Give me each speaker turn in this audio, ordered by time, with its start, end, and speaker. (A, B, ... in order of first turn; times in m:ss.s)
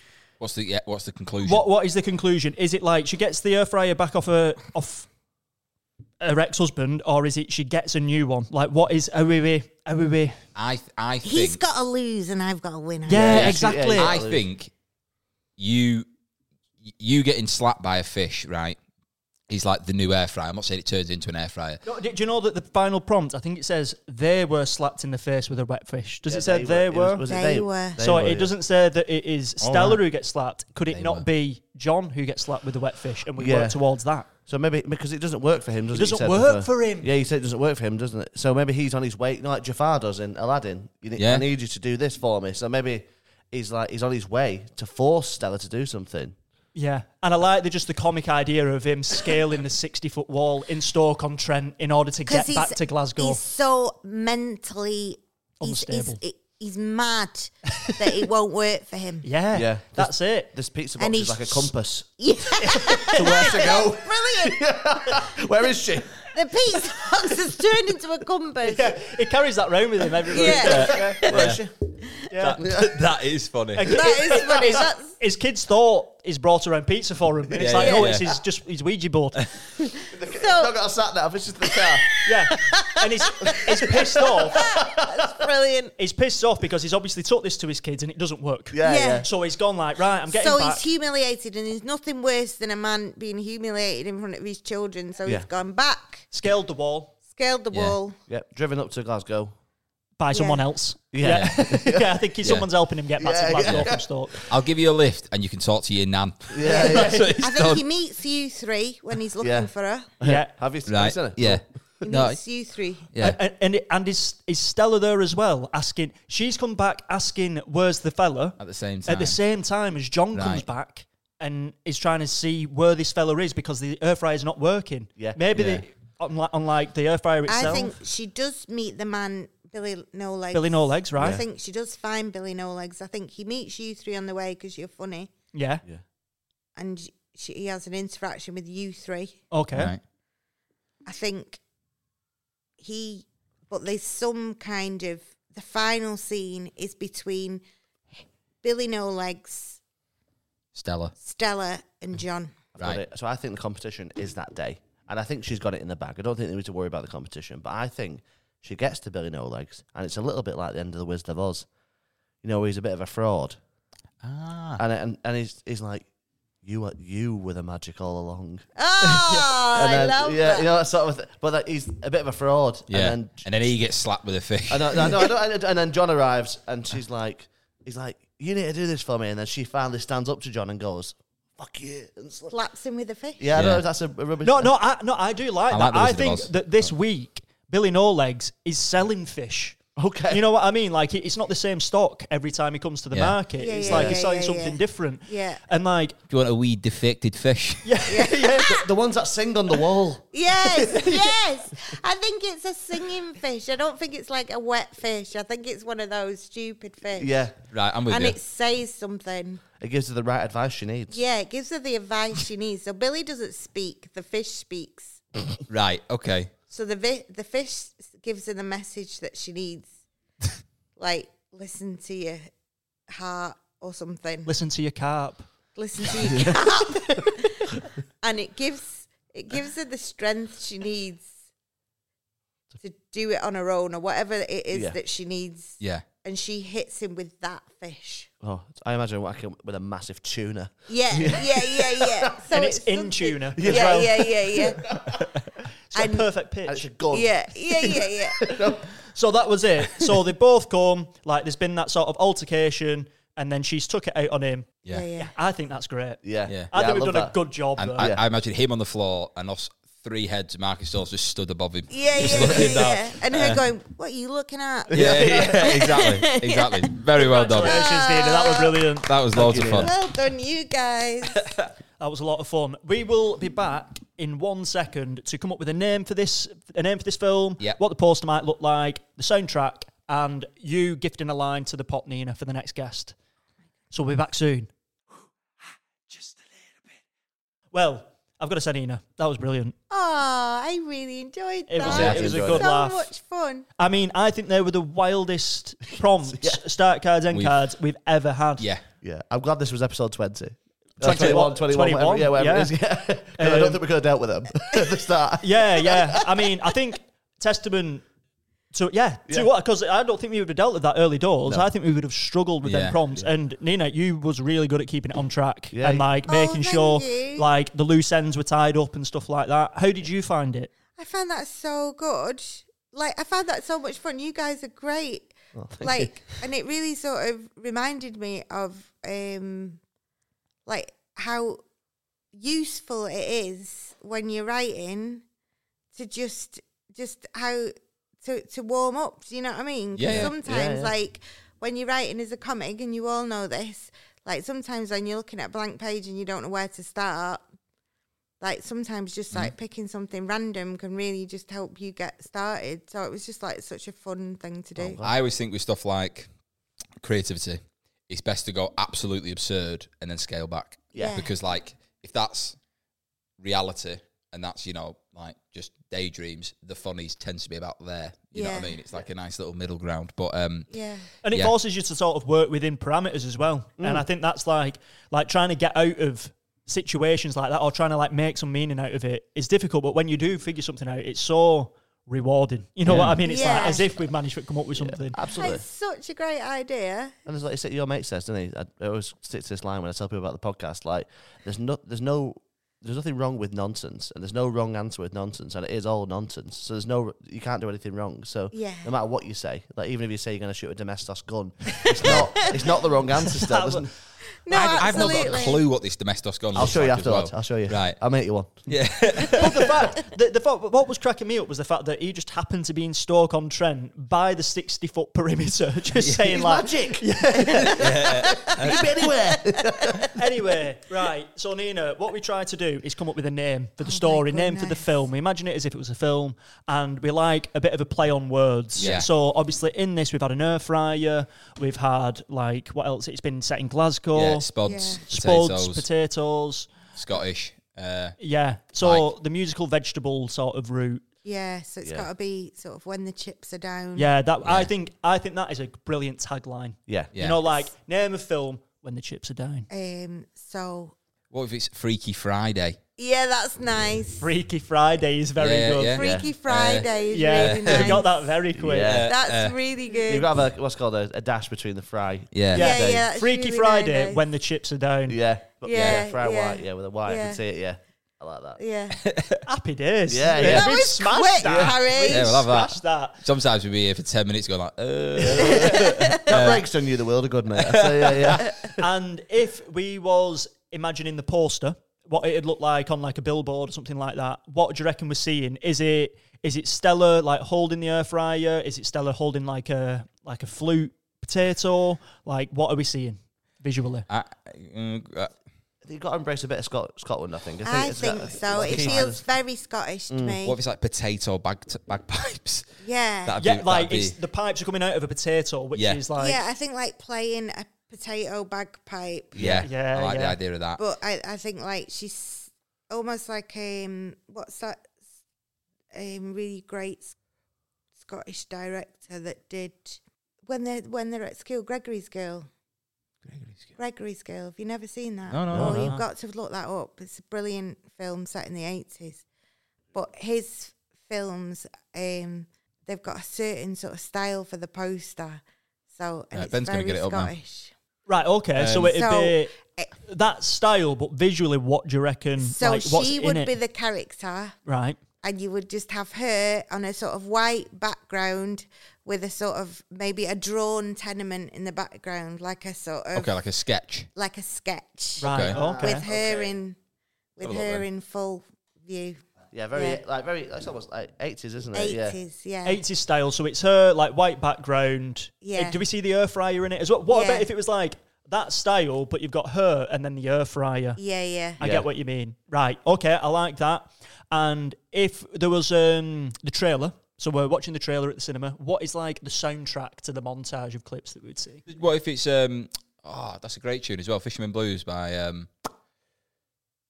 0:00.4-0:01.6 A
0:01.4-0:05.1 B
0:06.2-0:10.4 B
0:10.6-0:11.6 A
0:11.2-0:13.4 C
0:13.1-0:14.2 B
0:13.1-0:14.4 D
0:13.2-0:14.7 A
0:15.6-0:16.1 A
0:16.9-0:18.8 A
0:19.5-0:21.8 A
0:21.8-0:27.3 B
0:26.3-0:28.5 D
0:27.3-0:28.0 C
0:28.0-0:34.3 B
0:29.6-0:30.0 A
0:30.9-0:31.2 A
0:33.4-0:33.8 D
0:34.4-0:46.4 D
0:35.9-0:37.1 B
0:41.2-0:41.4 A
0:46.8-0:53.4 B
0:52.3-0:59.3 C
0:55.6-0:56.2 B
0:59.2-1:00.5 B
0:59.5-1:06.3 D
1:01.0-1:04.6 C
1:03.2-1:03.5 B
1:06.3-1:09.0 C
1:08.6-1:11.6 B
1:10.3-1:11.2 C
1:10.4-1:11.7 D
1:10.7-1:11.6 A
1:12.3-1:12.6 B
1:12.4-1:14.0 A
1:12.6-1:13.0 D
1:13.8-1:19.5 B
1:13.9-1:15.2 C
1:17.6-1:18.3 A
1:17.7-1:18.2 C
1:20.0-1:20.8 C
1:20.1-1:22.1 D
1:21.8-1:25.9 C
1:22.2-1:24.6 B
1:23.5-1:25.4 D
1:26.0-1:30.8 B
1:28.7-1:29.3 D
1:28.8-1:29.3 C
1:30.3-1:36.3 C
1:36.3-1:37.2 B
1:37.3-1:38.2 C
1:38.3-1:39.5 D
1:40.2-1:44.4 B
1:40.3-1:40.6 C
1:41.1-1:42.2 D
1:41.2-1:41.6 A
1:42.4-1:42.7 A
1:43.2-1:44.3 D
1:43.6-1:47.8 A
1:46.5-1:47.3 D
1:46.7-1:50.1 C
1:46.8-1:47.3 B
1:49.4-1:51.6 D
1:50.2-1:50.5 B
1:50.9-1:52.4 A
1:52.0-1:53.1 C
1:53.1-1:53.4 A
1:53.2-2:07.9 B
1:58.6-1:59.4 A
2:00.3-2:00.7 A
2:05.2-2:05.4 D
2:05.5-2:05.8 A
2:07.5-2:15.3 C
2:10.5-2:11.4 B
2:11.2-2:11.4 D
2:15.5-2:15.8 B
2:16.8-2:19.4 C
2:19.5-2:19.9 B
2:19.7-2:20.0 A
2:21.1-2:21.6 C
2:22.8-2:27.6 C
2:28.6-2:29.8 C
2:30.8-2:31.1 A
2:31.2-2:32.6 C
2:32.8-2:41.7 D
2:42.4-2:43.6 D
2:44.2-2:44.8 A
2:44.8-2:46.1 D
2:46.6-2:53.4 D
2:48.8-2:50.7 C
2:52.9-2:55.3 A
2:54.7-3:02.6 D
3:02.5-3:03.5 C
3:03.4-3:04.7 D
3:03.6-3:03.8 A
3:04.4-3:09.8 B
3:05.7-3:06.5 A
3:10.0-3:10.4 D
3:10.3-3:16.2 B
3:13.1-3:13.4 A
3:13.6-3:15.6 C
3:13.8-3:14.2 D
3:16.3-3:18.0 A
3:17.8-3:18.8 B
3:18.1-3:18.9 C
3:18.5-3:21.4 D
3:20.3-3:27.3 C
3:27.2-3:27.6 D
3:27.7-3:28.4 A
3:28.1-3:29.6 C
3:29.8-3:31.2 D
3:31.1-3:35.2 C
3:35.7-3:36.5 A
3:36.7-3:39.9 C
3:41.0-3:42.4 C
3:43.1-3:44.5 C
3:44.5-3:45.5 B
3:45.8-3:51.3 C
3:52.8-3:58.3 C
3:54.7-3:55.0 D
3:55.8-3:56.0 A
3:58.4-4:02.3 D
4:00.9-4:04.8 C
4:02.5-4:04.4 B
4:03.6-4:05.3 D
4:05.0-4:05.2 B
4:05.9-4:06.9 B
4:06.0-4:06.3 C
4:06.7-4:08.9 D
4:07.1-4:08.4 C
4:09.1-4:18.1 B
4:14.9-4:15.3 C
4:16.2-4:17.4 D
4:17.8-4:23.6 A
4:21.9-4:28.8 C
4:22.2-4:22.9 D
4:24.9-4:25.8 D
4:24.9-4:27.9 A
4:27.2-4:29.1 B
4:29.0-4:29.9 A
4:29.3-4:29.9 D
4:29.7-4:31.5 C
4:32.0-4:43.1 B
4:43.9-4:44.7 B
4:47.7-4:49.8 B
4:49.9-4:53.7 C
4:51.7-4:53.1 B
4:51.8-4:52.7 D
4:51.9-4:52.3 A
4:53.8-4:58.7 B
4:59.0-5:06.7 D
5:01.0-5:03.8 B
5:05.4-5:08.0 B
5:08.7-5:20.7 B
5:12.6-5:13.0 A
5:15.7-5:16.1 D
5:16.3-5:17.5 C
5:21.0-5:29.8 C
5:25.6-5:26.2 D
5:30.7-5:31.6 C
5:32.3-5:35.2 C
5:35.9-5:47.5 C
5:40.0-5:40.3 A
5:40.1-5:40.9 D
5:48.4-5:55.0 C
5:54.8-5:55.2 D
5:55.0-5:56.3 A
5:57.0-6:02.6 A
6:01.0-6:01.3 C
6:03.4-6:10.7 A
6:08.3-6:08.8 C
6:10.7-6:11.1 C
6:11.2-6:25.2 B
6:13.8-6:14.1 D
6:22.9-6:23.2 D
6:23.2-6:23.9 C
6:24.8-6:25.6 D
6:25.3-6:27.2 C
6:27.3-6:43.9 D
6:38.5-6:38.9 C
6:41.9-6:42.6 C
6:43.3-6:43.9 B
6:44.4-6:45.6 C
6:44.5-6:48.0 A
6:46.5-6:48.6 D
6:48.7-6:49.7 A
6:49.3-6:58.2 B
6:56.2-7:00.2 D
6:57.7-6:58.8 A
6:58.3-6:58.8 C
6:59.6-6:59.9 C
7:00.2-7:17.0 B
7:03.8-7:05.0 C
7:08.8-7:09.0 D
7:08.8-7:09.1 A
7:14.1-7:15.8 A
7:14.6-7:15.1 C
7:16.9-7:18.2 A
7:18.2-7:21.0 B
7:18.8-7:19.1 A
7:21.2-7:24.1 C
7:24.0-7:29.7 B
7:24.4-7:24.7 A
7:27.1-7:27.4 A
7:29.7-7:31.0 C
7:31.3-7:32.8 A
7:33.0-7:34.3 C
7:34.2-7:36.2 B
7:35.4-7:38.0 A
7:35.9-7:38.3 C
7:36.0-7:36.3 D
7:37.1-7:39.0 B
7:38.6-7:39.1 D
7:38.8-7:39.6 A
7:39.0-7:40.3 C
7:40.1-7:43.0 D
7:42.3-7:42.9 A
7:42.5-7:45.2 B
7:42.6-7:44.2 C
7:45.1-7:48.6 D
7:45.6-7:47.4 C
7:45.8-7:46.0 A
7:48.6-7:49.0 C
7:49.0-7:49.4 A
7:49.5-7:53.2 B
7:50.1-7:50.8 D
7:50.4-7:52.4 C
7:51.4-7:51.8 D
7:52.1-7:56.6 A
7:55.2-7:58.9 D
7:55.3-7:56.0 B
7:55.8-7:56.5 C
7:57.6-7:58.6 A
7:58.8-8:14.1 B
8:14.1-8:15.4 A
8:15.8-8:19.2 D
8:17.6-8:20.6 C
8:18.7-8:19.0 A
8:20.1-8:20.4 D
8:20.4-8:22.7 A
8:22.8-8:23.4 C
8:23.2-8:24.2 A
8:23.4-8:26.4 B
8:25.7-8:26.0 A
8:26.2-8:29.4 C
8:29.4-8:29.7 D
8:29.4-8:30.8 A
8:29.6-8:30.4 B
8:30.8-8:35.0 C
8:35.9-8:37.2 C
8:38.0-8:42.5 C
8:43.2-8:43.7 A
8:43.8-8:49.2 C
8:45.3-8:46.0 A
8:45.5-8:45.9 D
8:49.9-8:57.7 C
8:56.3-8:57.3 A
8:58.1-8:59.5 B
8:58.6-8:59.0 A
8:58.9-8:59.9 C
9:00.0-9:03.5 B
9:02.4-9:04.6 C
9:04.7-9:05.0 B
9:05.2-9:13.4 C
9:13.1-9:14.1 A
9:14.2-9:16.8 C
9:15.2-9:16.1 B
9:15.3-9:15.6 A
9:15.4-9:16.5 D
9:17.4-9:19.2 C
9:17.4-9:17.9 A
9:19.5-9:22.2 D
9:19.7-9:20.0 C
9:21.7-9:22.8 C
9:22.6-9:31.0 B
9:25.4-9:25.8 C
9:27.1-9:27.5 C
9:31.0-9:31.6 C
9:31.6-9:41.7 B
9:31.6-9:31.9 D
9:41.7-9:45.5 A